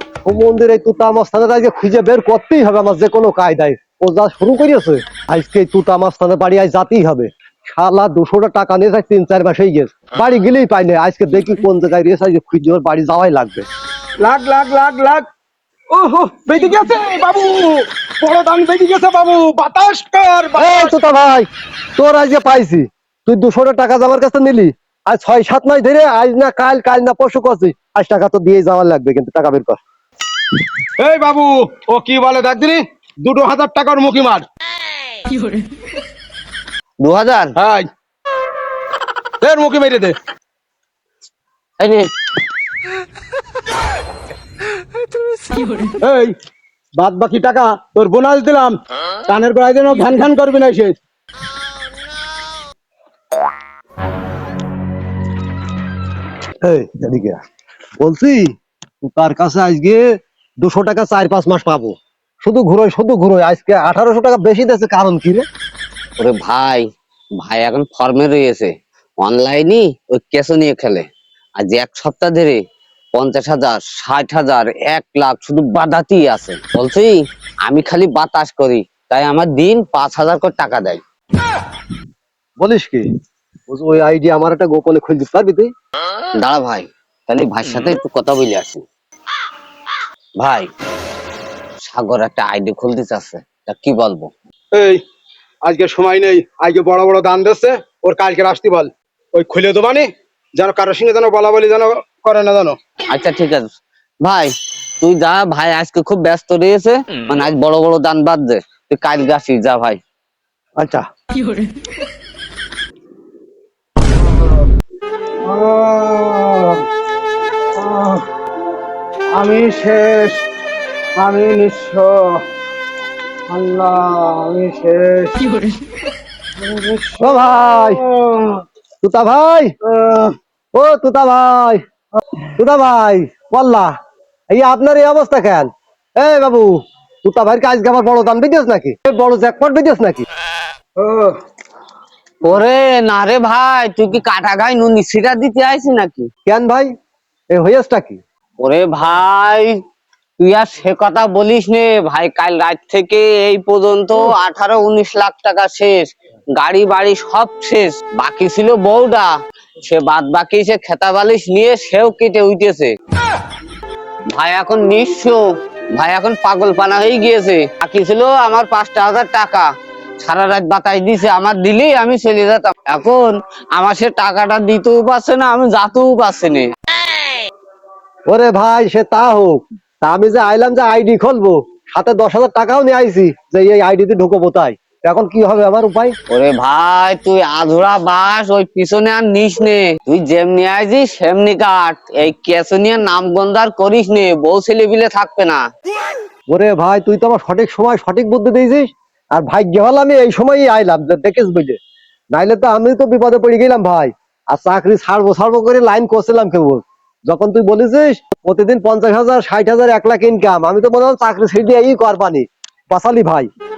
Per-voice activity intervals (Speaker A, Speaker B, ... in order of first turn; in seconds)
Speaker A: 0.2-13.7, 20.6-29.8, 56.6-57.4, 58.0-58.5, 59.0-60.1, 60.6-65.4, 82.6-83.0, 83.7-85.7, 110.8-111.0, 127.2-128.0, 129.0-129.7, 130.7-131.8, 132.6-133.9, 134.5-140.2, 146.4-146.9, 147.5-148.2, 178.3-186.1, 196.5-201.8, 202.3-213.5
Speaker B: 14.2-15.3, 15.9-20.9, 31.0-34.5, 37.6-37.9, 39.4-40.1, 46.0-46.3, 47.0-48.8, 49.3-50.9, 94.7-95.0, 95.6-102.8, 114.2-114.7, 115.4-116.8, 117.8-118.2, 119.3-120.4, 121.2-122.4, 123.5-125.5, 126.6-128.6, 129.8-130.3, 141.0-141.4
Speaker C: 37.0-37.5, 41.8-42.1, 66.2-66.8, 67.4-71.0, 71.6-72.6, 73.1-77.1, 77.6-81.0, 86.4-88.8, 90.4-90.7, 91.8-94.3, 103.1-103.7, 104.2-110.0, 142.4-146.3, 148.6-149.7, 150.4-156.1, 156.6-159.3, 159.8-162.9, 164.3-165.4, 165.9-169.7, 170.2-176.7, 186.3-195.6